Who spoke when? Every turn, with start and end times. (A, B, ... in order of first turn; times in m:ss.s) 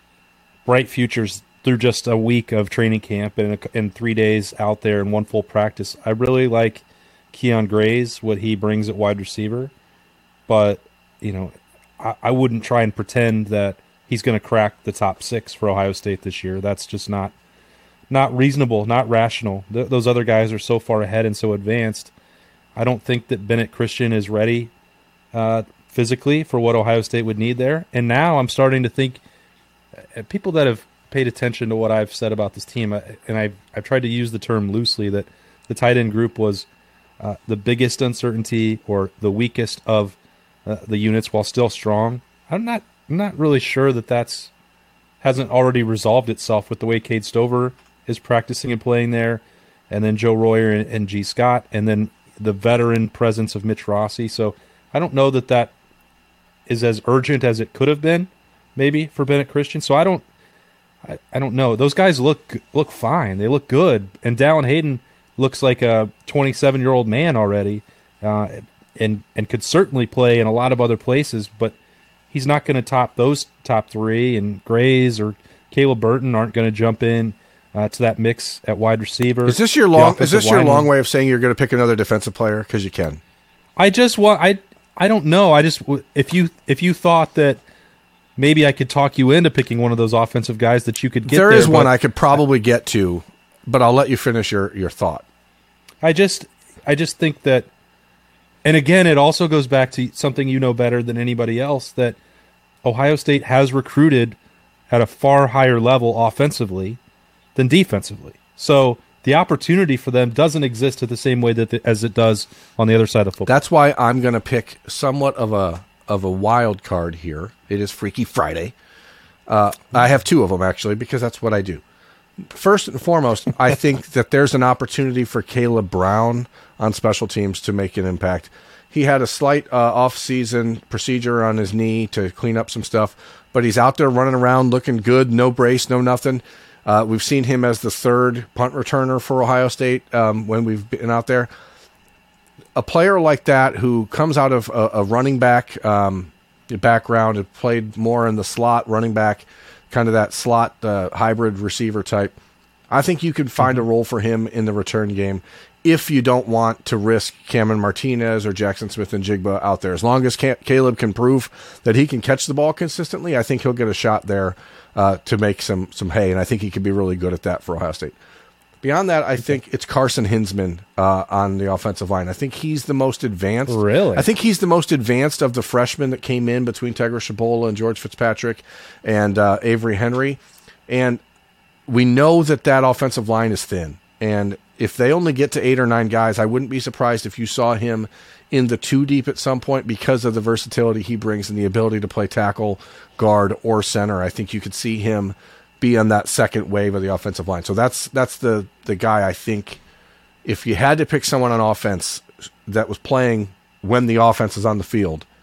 0:00.7-0:09.7 A
0:10.5-0:17.3 A
0:18.1-0:22.1 A
0:22.8-0:24.7 A
0:25.3-0:29.2 A
0:30.0-0:36.7 A
0:37.2-0:44.5 A
0:45.2-0:55.7 A
0:56.7-1:00.2 A
1:01.0-1:11.8 A
1:12.3-1:20.9 A
1:19.5-1:23.2 B
1:23.8-1:27.6 A
1:28.4-1:31.9 A
1:31.3-1:35.2 B
1:36.0-1:37.7 A
1:38.6-1:42.2 A
1:42.8-1:44.4 A
1:44.9-1:47.0 A
1:47.6-1:53.5 A
1:53.5-1:58.8 B
1:59.5-2:01.8 B
2:02.5-2:21.5 B
2:22.8-2:32.3 B
2:32.9-2:48.1 B
2:48.8-3:01.2 B
2:53.7-2:54.3 A
3:01.9-3:19.8 B
3:20.4-3:25.3 B